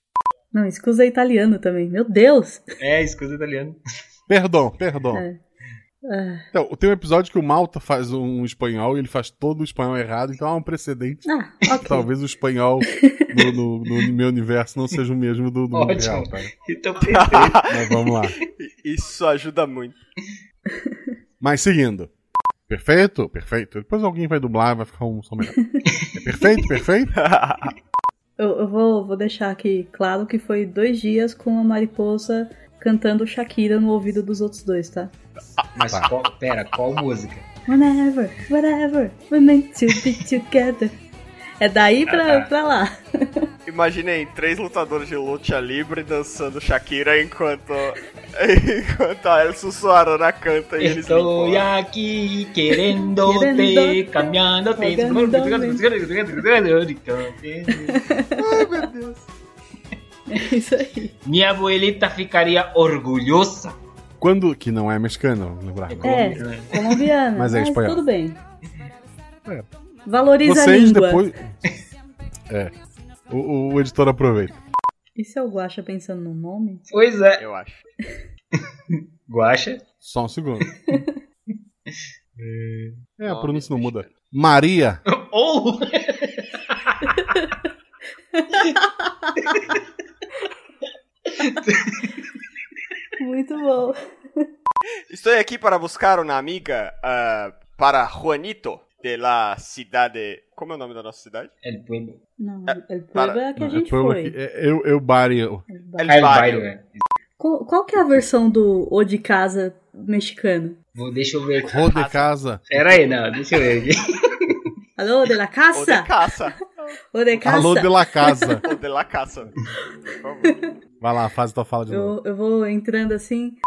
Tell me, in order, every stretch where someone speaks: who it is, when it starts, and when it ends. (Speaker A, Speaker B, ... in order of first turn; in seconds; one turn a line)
Speaker A: 0.5-2.7
Speaker B: 2.8-3.8
Speaker C: 4.3-5.2
Speaker A: 5.1-5.4
Speaker A: 6.1-6.4
Speaker C: 6.5-11.2
Speaker A: 11.3-12.1
Speaker C: 11.8-16.5
Speaker B: 15.7-17.6
Speaker D: 17.1-17.8
Speaker C: 17.7-18.4
Speaker D: 18.6-20.0
Speaker C: 21.4-22.1
Speaker C: 22.7-25.6
Speaker C: 26.2-27.1
Speaker D: 27.1-27.7
Speaker A: 28.4-35.1
Speaker D: 35.6-36.1
Speaker B: 35.8-37.5
Speaker A: 37.7-41.0
Speaker A: 41.6-42.9
Speaker B: 42.1-42.5
Speaker D: 43.7-51.7
Speaker B: 50.8-58.0
Speaker A: 52.9-55.8
Speaker A: 57.8-58.9
Speaker C: 58.6-59.1
Speaker D: 58.8-59.1
Speaker A: 60.3-61.1
Speaker B: 61.2-63.8
Speaker C: 64.2-66.5
Speaker B: 65.9-67.0
Speaker A: 66.0-68.4
Speaker C: 67.4-68.0
Speaker A: 70.1-71.2
Speaker C: 70.4-71.6
Speaker C: 73.3-74.6
Speaker A: 75.2-76.8
Speaker B: 76.9-77.4
Speaker D: 77.4-77.8
Speaker B: 78.9-79.8
Speaker C: 80.0-81.0
Speaker A: 80.9-81.2
Speaker B: 82.4-83.1
Speaker C: 83.2-85.0
Speaker D: 83.2-84.1
Speaker B: 85.1-87.0
Speaker A: 88.4-88.7
Speaker B: 91.4-92.3
Speaker A: 93.2-94.0
Speaker D: 95.1-101.5
Speaker B: 101.6-102.2
Speaker A: 102.4-104.3
Speaker D: 102.7-103.4
Speaker C: 103.6-105.7
Speaker A: 105.7-106.2
Speaker D: 106.0-106.7
Speaker B: 106.1-107.0
Speaker A: 107.4-110.8
Speaker B: 111.0-111.8
Speaker C: 111.6-112.8
Speaker D: 111.9-112.3
Speaker B: 112.7-114.6
Speaker A: 115.0-116.1
Speaker D: 115.7-116.9
Speaker A: 117.1-118.6
Speaker C: 117.4-118.6
Speaker D: 118.6-119.5
Speaker D: 120.2-120.6
Speaker C: 121.0-122.2
Speaker A: 121.9-123.6